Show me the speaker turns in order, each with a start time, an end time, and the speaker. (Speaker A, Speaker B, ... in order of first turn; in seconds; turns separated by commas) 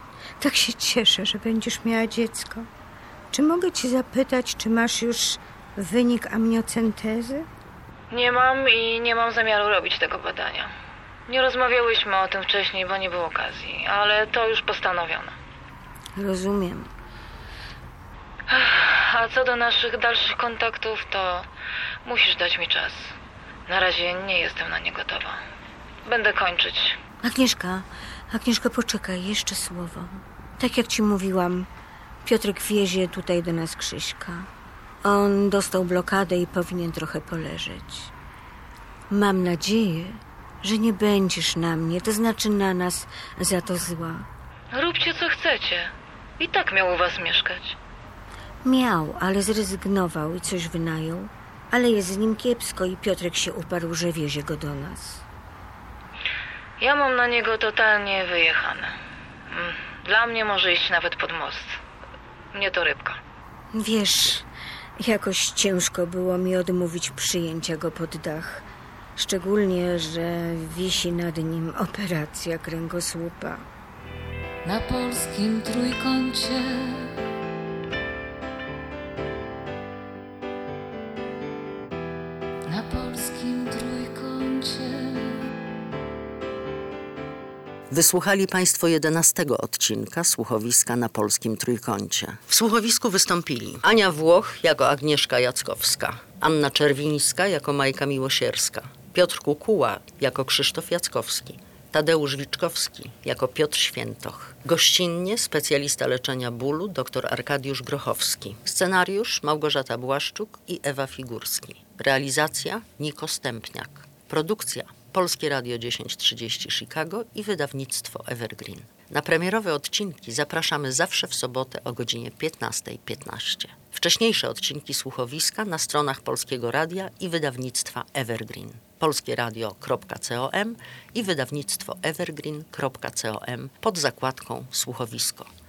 Speaker A: 0.4-2.7, Speaker A: 3.3-7.5, Speaker B: 8.1-10.7, Speaker B: 11.3-15.3, Speaker A: 16.1-16.9, Speaker B: 18.5-21.5, Speaker B: 22.0-23.1, Speaker B: 23.7-25.4, Speaker B: 26.0-27.0, Speaker A: 27.2-31.7, Speaker A: 32.2-34.5, Speaker A: 35.0-38.1, Speaker A: 39.1-44.2, Speaker B: 44.7-47.8, Speaker A: 48.6-55.2, Speaker B: 56.8-58.9, Speaker B: 59.5-61.7, Speaker B: 62.5-63.2, Speaker A: 63.7-64.5, Speaker A: 65.0-68.6, Speaker A: 69.2-73.6, Speaker C: 74.6-77.1, Speaker C: 82.7-85.5, Speaker D: 87.9-135.5